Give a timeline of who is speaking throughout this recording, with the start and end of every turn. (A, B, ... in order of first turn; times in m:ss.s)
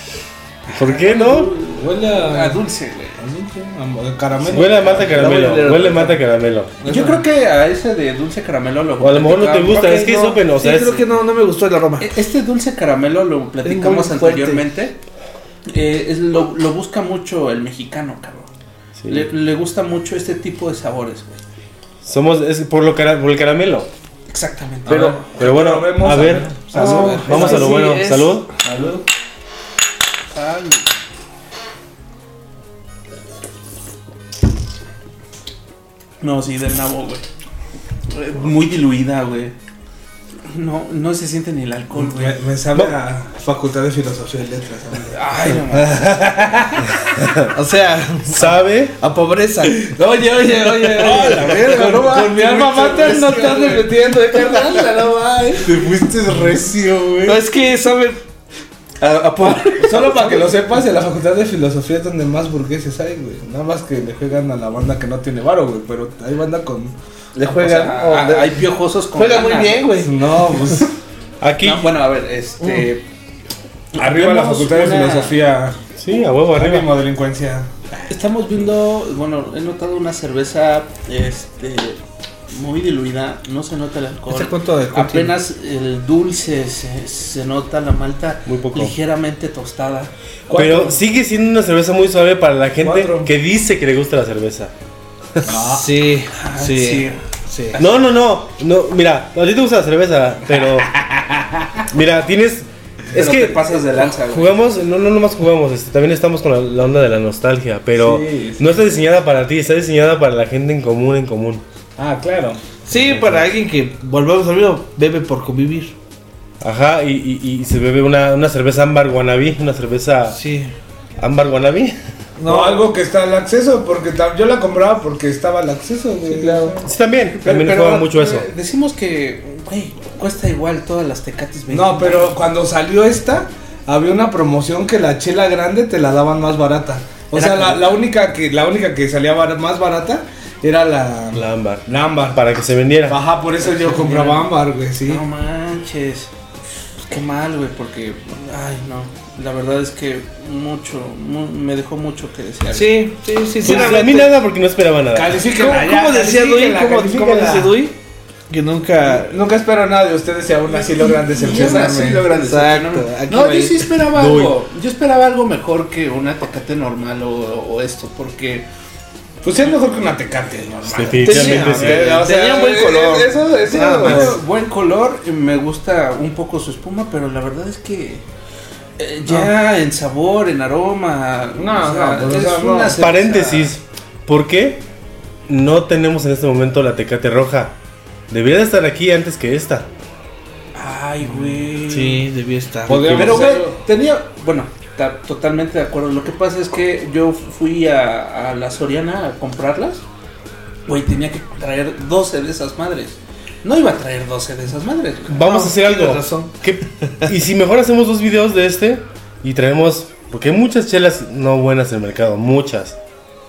0:00.7-0:03.2 A
0:00.7-0:01.6 B
0:01.8-0:02.6 C
0:03.2-0:05.3 C
0:04.5-0:06.7 B
0:04.7-0:06.2 D
0:06.8-0:07.2 D
0:06.8-0:09.9 A
0:09.0-0:11.0 B
0:09.7-0:12.2 D
0:12.0-0:15.0 A
0:13.6-0:14.6 D
0:15.7-0:18.5 A
0:19.0-0:19.3 B
0:19.1-0:21.4 A
0:22.0-0:23.9 B
0:24.3-0:25.3 A
0:24.9-0:28.6 B
0:24.9-0:27.7 C
0:24.9-0:25.2 D
0:26.7-0:28.4 D
0:26.8-0:27.6 A
0:28.7-0:29.0 C
0:28.7-0:29.0 A
0:30.3-0:30.9 A
0:36.2-0:37.2 A
0:38.1-0:39.6 A
0:40.5-0:42.4 A
0:41.9-0:46.9 C
0:45.1-0:46.0 A
0:47.2-0:47.5 B
0:47.5-0:53.8 D
0:48.3-0:49.0 B
0:49.6-0:57.4 C
0:51.2-0:54.8 A
0:57.2-0:58.2 D
0:59.0-1:00.4 A
0:59.8-1:07.0 C
1:07.4-1:08.6 D
1:07.4-1:09.9 A
1:09.2-1:10.1 D
1:10.0-1:10.9 C
1:11.4-1:12.0 B
1:11.6-1:13.0 A
1:12.6-1:12.9 D
1:13.9-1:15.4 A
1:14.0-1:15.8 C
1:16.0-1:16.9 B
1:16.5-1:18.0 C
1:18.1-1:22.0 A
1:22.5-1:30.1 A
1:24.3-1:25.3 C
1:28.5-1:28.9 B
1:30.5-1:31.0 C
1:30.5-1:34.7 B
1:32.8-1:33.3 C
1:35.5-1:35.9 C
1:35.5-1:37.8 D
1:36.4-1:37.2 A
1:37.8-1:41.0 B
1:41.9-1:51.6 B
1:43.1-1:44.5 A
1:48.0-1:48.7 C
1:52.0-1:52.6 C
1:52.9-1:56.0 D
1:53.1-1:53.4 B
1:56.6-2:00.4 B
2:00.3-2:00.7 D
2:01.2-2:02.0 B
2:02.4-2:02.9 D
2:02.5-2:06.9 C
2:06.3-2:06.8 D
2:06.8-2:08.5 B
2:07.4-2:12.4 A
2:11.7-2:22.4 C
2:17.3-2:17.8 A
2:21.3-2:23.2 B
2:23.1-2:25.2 C
2:23.6-2:24.5 A
2:25.0-2:26.3 A
2:27.0-2:33.1 A
2:32.7-2:34.4 D
2:33.6-2:35.4 B
2:33.7-2:34.0 C
2:35.1-2:37.9 C
2:35.5-2:38.0 D
2:38.5-2:39.4 D
2:39.0-2:42.3 C
2:40.9-2:48.7 A
2:41.5-2:43.9 D
2:44.1-2:44.6 B
2:49.4-2:54.4 C
2:51.0-2:52.3 B
2:51.2-2:54.4 D
2:54.0-2:58.2 A
2:59.0-3:03.8 A
3:01.6-3:03.0 C
3:03.0-3:04.8 B
3:05.5-3:07.7 B
3:08.3-3:09.9 B
3:10.8-3:12.3 A
3:11.8-3:13.4 D
3:12.9-3:13.8 C
3:12.9-3:13.3 B
3:13.2-3:20.0 A
3:20.9-3:25.5 A
3:25.3-3:33.0 B
3:25.4-3:27.3 D